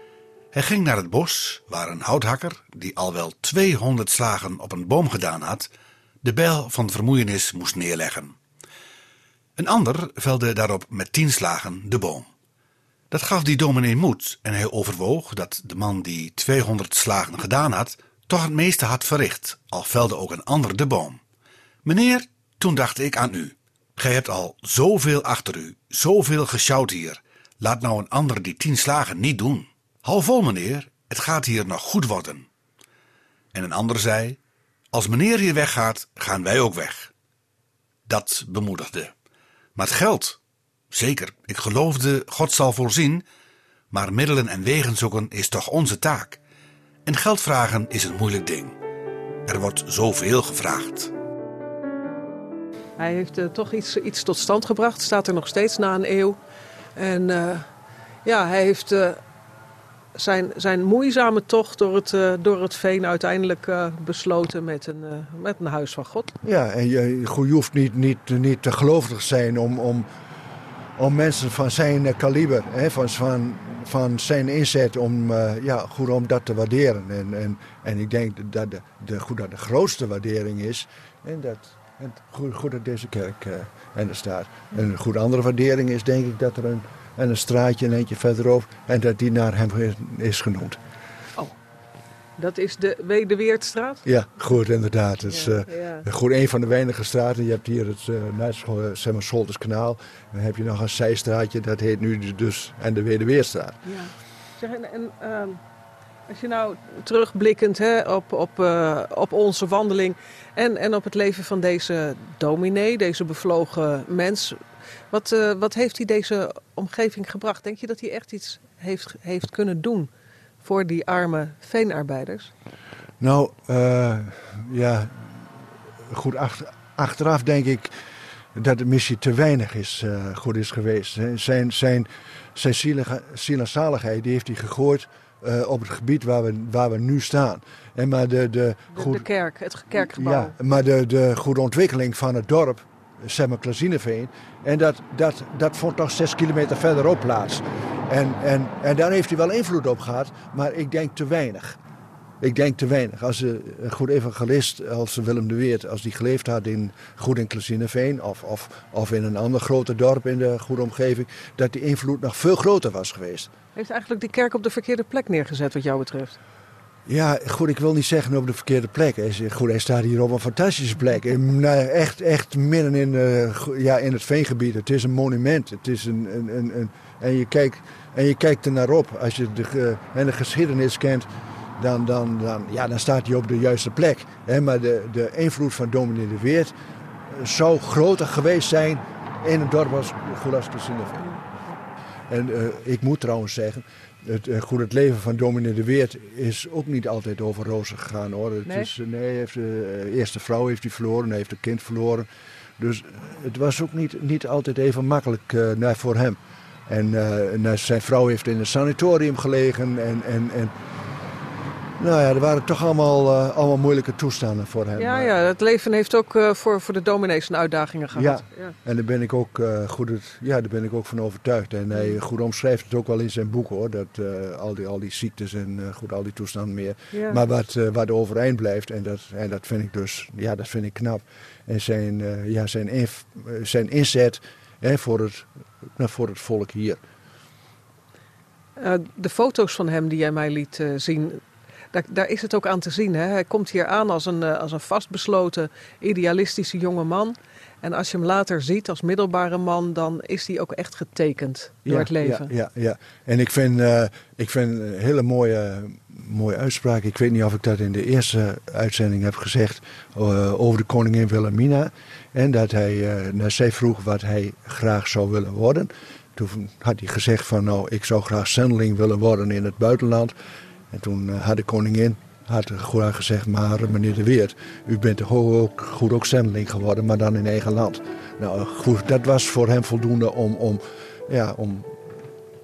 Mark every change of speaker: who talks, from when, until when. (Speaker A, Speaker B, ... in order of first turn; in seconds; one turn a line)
Speaker A: 0.5-5.7
Speaker A: 6.2-8.3
Speaker A: 9.6-12.3
Speaker A: 13.1-21.2
Speaker A: 21.8-32.5
Speaker A: 33.5-34.4
Speaker A: 34.9-37.1
Speaker A: 38.1-39.1
Speaker A: 39.8-40.4
Speaker A: 40.9-43.2
Speaker A: 43.9-46.4
Speaker A: 47.0-48.7
Speaker A: 49.5-51.1
Speaker B: 53.0-56.4
Speaker B: 57.0-57.6
Speaker B: 58.2-59.2
Speaker B: 60.1-66.3
Speaker C: 66.4-70.1
Speaker C: 71.0-90.8
Speaker B: 92.4-94.0
Speaker C: 94.0-103.8
Speaker B: 95.2-96.0
Speaker B: 103.9-105.6
Speaker B: 106.3-114.6
Speaker B: 115.1-120.1
Speaker B: 120.6-122.5
Speaker C: 123.2-125.4
Speaker C: 126.0-127.9
Speaker C: 128.5-139.2
Speaker B: 138.9-140.6
Speaker C: 140.0-151.8
Speaker C: 152.4-163.5
Speaker B: 163.7-166.4
Speaker C: 167.1-181.3
Speaker C: 181.8-186.7
Speaker C: 187.3-191.4
Speaker C: 192.3-202.3
Speaker C: 202.8-210.7
Speaker C: 212.0-215.3
Speaker B: 215.0-218.7
Speaker C: 218.1-237.0
Speaker B: 221.9-222.2
Speaker B: 227.1-227.4
Speaker B: 238.8-241.4
Speaker B: 241.9-252.5
Speaker C: 251.8-270.4
Speaker C: 270.9-281.9